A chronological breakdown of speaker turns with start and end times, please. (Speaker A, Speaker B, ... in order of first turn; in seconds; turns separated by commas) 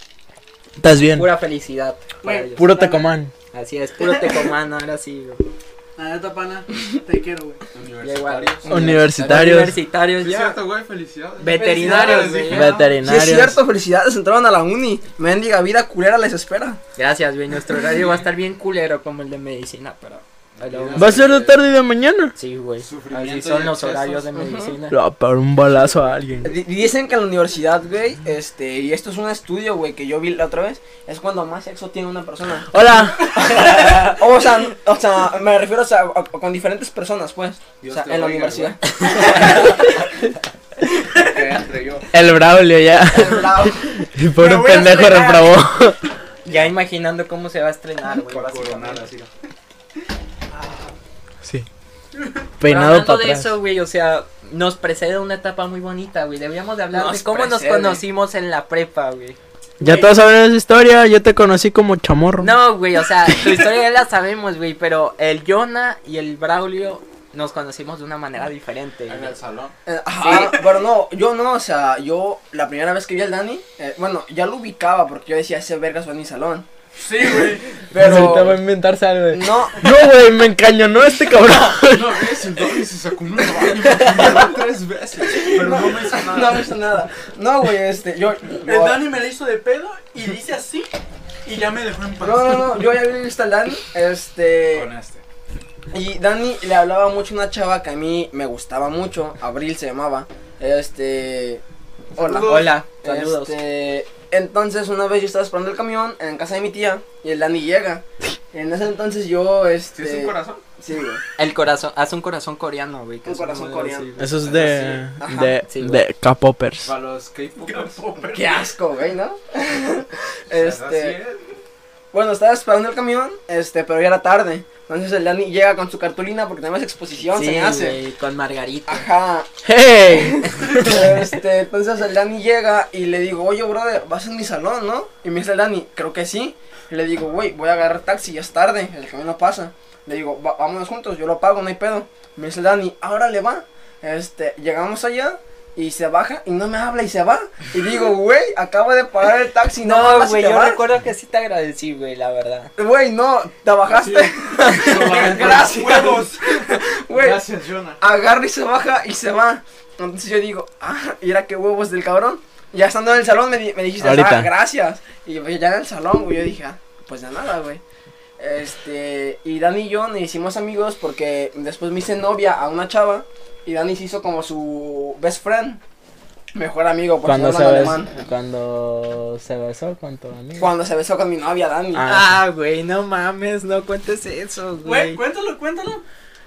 Speaker A: 0.8-1.3, Speaker B: 1.1-2.8, Speaker C: 2.2-3.0, Speaker A: 2.6-3.3, Speaker B: 3.5-5.5, Speaker C: 4.0-4.3, Speaker C: 6.0-7.6, Speaker D: 7.7-8.9, Speaker B: 8.0-10.6, Speaker E: 8.7-9.5, Speaker A: 8.7-9.8, Speaker D: 10.1-13.0, Speaker B: 11.4-12.8, Speaker C: 11.5-12.5, Speaker A: 12.5-13.6, Speaker E: 13.0-16.8, Speaker B: 17.0-21.3, Speaker D: 20.6-21.6, Speaker A: 21.0-22.3, Speaker B: 22.4-25.0, Speaker D: 22.8-24.4, Speaker E: 24.4-24.8, Speaker A: 24.9-26.5, Speaker D: 25.8-26.1, Speaker E: 26.4-32.7, Speaker A: 32.7-33.3, Speaker E: 33.3-40.1, Speaker D: 37.8-38.8, Speaker B: 39.1-39.6, Speaker D: 41.0-42.1, Speaker A: 42.1-46.1, Speaker E: 43.1-43.9, Speaker C: 44.4-45.6, Speaker B: 46.5-49.1, Speaker D: 48.1-49.3, Speaker C: 50.5-50.9, Speaker A: 52.6-53.6, Speaker B: 52.6-59.4, Speaker E: 56.9-58.0, Speaker A: 59.8-62.5, Speaker E: 59.8-60.1, Speaker B: 62.4-69.4, Speaker D: 69.1-69.8, Speaker E: 69.9-76.7, Speaker B: 70.2-70.6, Speaker C: 77.0-77.7, Speaker E: 77.9-78.6, Speaker A: 78.0-82.4, Speaker E: 79.3-79.8, Speaker D: 81.8-86.7, Speaker E: 85.3-89.0, Speaker C: 88.7-90.9, Speaker C: 91.5-92.9, Speaker E: 92.2-94.9, Speaker D: 94.7-95.2, Speaker E: 95.9-101.6, Speaker E: 102.2-111.2, Speaker D: 102.2-102.8, Speaker B: 102.4-103.5, Speaker D: 109.9-110.7, Speaker B: 111.4-114.3, Speaker E: 113.2-114.2, Speaker A: 114.2-116.9, Speaker D: 114.4-115.1, Speaker E: 115.2-115.6, Speaker B: 115.7-116.0, Speaker D: 116.8-118.5, Speaker C: 117.7-117.9, Speaker E: 118.3-121.2, Speaker D: 120.5-121.4, Speaker E: 122.1-128.0, Speaker B: 127.3-129.1, Speaker E: 128.9-150.8, Speaker A: 129.7-130.4, Speaker B: 149.8-152.7, Speaker E: 152.8-157.5, Speaker D: 153.9-158.0, Speaker B: 154.6-155.3, Speaker E: 158.0-167.8, Speaker A: 164.0-164.5, Speaker E: 168.4-175.8, Speaker E: 176.5-178.1, Speaker A: 177.2-180.7, Speaker E: 180.6-182.1, Speaker A: 181.9-182.4, Speaker B: 182.0-185.2, Speaker C: 184.8-186.0